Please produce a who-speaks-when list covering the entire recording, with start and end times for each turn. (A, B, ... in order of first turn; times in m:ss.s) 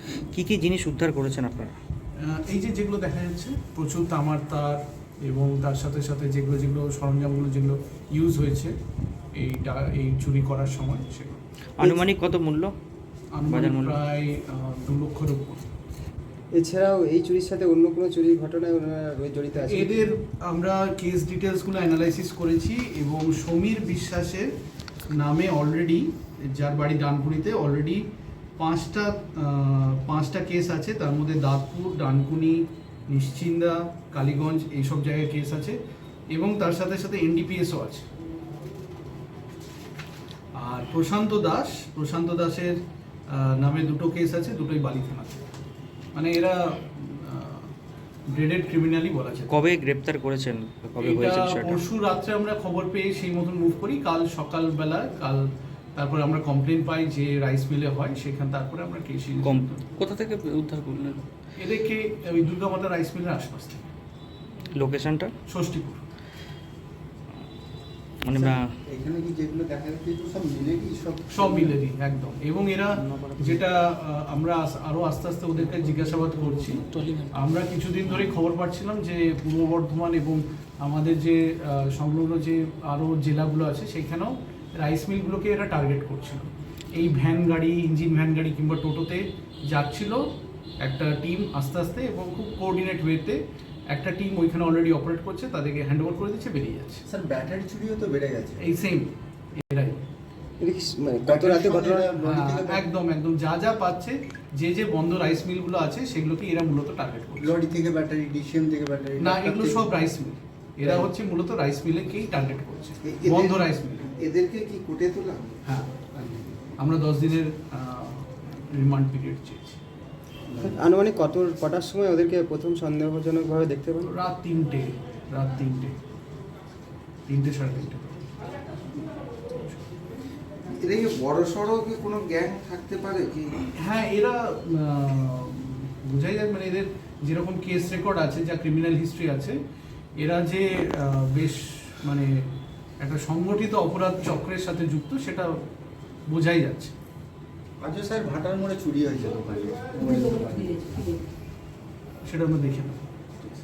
0:00.3-0:01.7 A
0:02.2-0:08.7 B
0:09.4-0:11.4 B
0:11.8-0:12.7 A
0:13.3-0:15.7 B
0:13.5-0:14.0 A
0:16.5-0:20.1 C
0:19.6-0:24.5 B
0:25.1-0:28.0 B
0:28.6-0:35.8 B
0:36.3-0:38.0 B
0:40.6-0:45.4 B
0:46.1-0:47.7 B
0:48.3-0:49.6 B
0:49.5-0:51.8 A
0:51.0-0:59.9 B
0:59.4-1:01.2 A
1:01.6-1:03.9 B
1:04.7-1:05.3 A
1:05.5-1:06.0 B
1:08.2-1:08.7 A
1:08.3-1:11.8 D
1:11.3-1:30.2 B
1:13.1-1:13.6 A
1:15.7-1:17.3 A
1:30.8-1:33.4 B
1:33.9-1:37.0 B
1:37.0-1:38.7 D
1:38.6-1:40.0 B
1:40.6-1:42.1 C
1:41.2-1:42.8 D
1:41.3-1:41.7 B
1:42.2-1:47.5 B
1:47.4-1:49.9 D
1:49.2-1:54.1 B
1:50.8-1:51.1 D
1:53.0-1:55.6 D
1:55.6-1:59.8 B
2:00.5-2:00.8 D
2:00.6-2:04.1 C
2:04.0-2:06.0 B
2:07.3-2:08.3 B
2:09.4-2:09.8 B
2:10.7-2:13.5 D
2:13.8-2:19.6 B
2:20.2-2:22.3 B
2:23.0-2:25.5 B
2:26.3-2:26.9 B
2:27.8-2:31.0 D
2:32.2-2:33.0 B